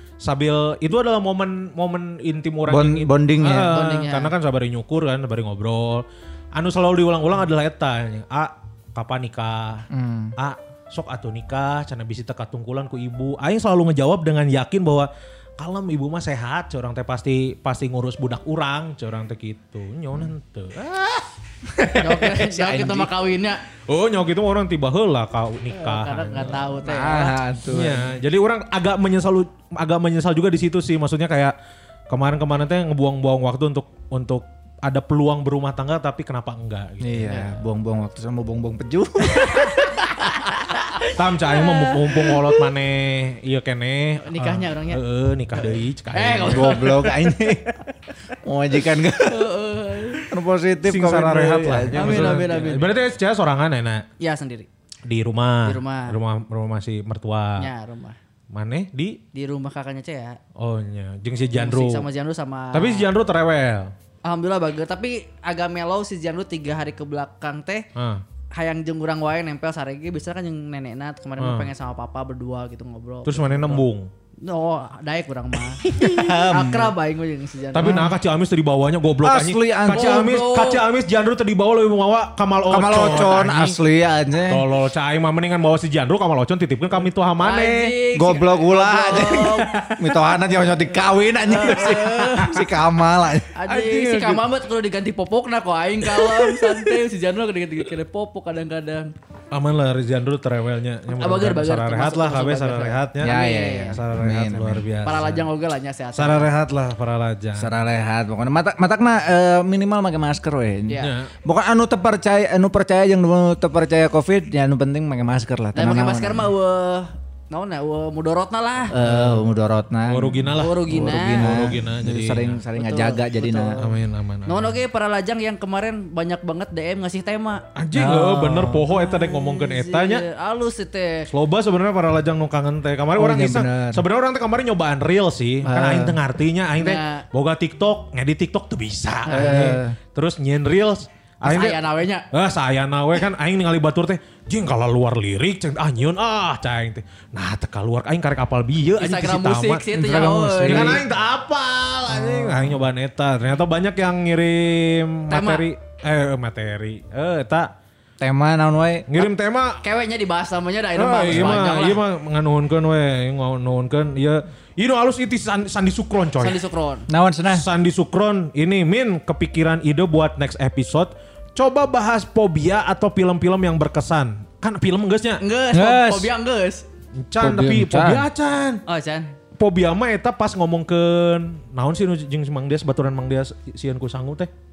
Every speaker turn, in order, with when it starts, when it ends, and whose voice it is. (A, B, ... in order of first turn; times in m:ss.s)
0:00.2-0:09.8 A
0:02.7-0:03.7 B
0:03.6-0:04.3 C
0:09.9-0:10.3 B
0:10.4-0:21.3 A
0:21.7-0:23.1 B
0:22.0-0:23.6 C
0:23.9-0:26.7 A
0:25.7-0:27.3 C
0:26.6-0:28.1 B
0:27.7-0:31.5 A
0:32.1-0:37.4 A
0:37.0-0:39.8 B
0:39.3-0:42.4 C
0:41.1-0:46.9 A
0:44.2-0:45.0 C
0:46.1-0:47.1 C
0:46.4-0:49.5 B
0:49.2-0:50.3 C
0:50.2-0:52.6 B
0:50.8-0:54.0 A
0:51.9-0:52.9 C
0:54.2-0:54.7 C
0:55.0-0:57.7 A
0:55.6-0:56.2 C
0:57.6-0:58.2 C
0:58.5-0:59.2 A
0:59.3-1:00.4 C
1:00.6-1:02.0 A
1:01.5-1:03.1 C
1:02.7-1:03.9 A
1:04.2-1:07.8 C
1:08.0-1:08.2 A
1:08.5-1:13.8 C
1:11.4-1:11.7 A
1:13.2-1:14.1 A
1:14.4-1:18.0 C
1:15.8-1:16.9 B
1:17.7-1:23.8 A
1:17.8-1:18.1 B
1:19.2-1:20.2 B
1:19.9-1:20.8 C
1:22.7-1:24.6 B
1:24.4-1:27.9 A
1:27.4-1:29.9 C
1:28.1-1:33.5 B
1:31.4-1:32.6 C
1:33.5-1:39.1 C
1:33.7-1:34.4 A
1:39.5-1:43.4 A
1:41.1-1:44.0 C
1:43.2-1:45.2 B
1:43.9-1:45.4 A
1:45.0-1:46.5 C
1:46.1-1:47.7 A
1:47.6-1:56.5 B
1:51.0-1:51.3 A
1:55.7-1:59.0 C
1:58.9-2:03.8 B
1:59.0-1:59.4 A
2:00.1-2:02.6 A
2:00.6-2:01.6 C
2:02.8-2:03.8 C
2:03.8-2:04.8 A
2:04.5-2:07.6 C
2:07.8-2:10.2 A
2:07.9-2:08.8 B
2:08.9-2:11.3 C
2:11.3-2:29.9 A
2:13.2-2:14.0 B
2:15.6-2:16.2 B
2:16.8-2:17.2 C
2:19.2-2:19.8 C
2:19.3-2:20.0 B
2:21.4-2:22.2 C
2:29.0-2:31.0 C
2:29.9-2:31.0 B
2:30.6-2:37.7 A
2:32.1-2:32.8 B
2:35.3-2:35.6 C
2:38.2-2:39.1 B
2:39.1-2:39.8 A
2:39.8-2:42.0 C
2:41.0-2:46.6 A
2:46.4-2:47.0 C
2:47.1-2:47.6 B
2:47.5-2:55.4 A
2:55.4-2:56.8 C
2:55.7-2:56.3 B
2:57.2-2:58.8 A
2:57.4-2:58.2 B
2:58.9-2:59.3 C
2:59.6-3:04.5 A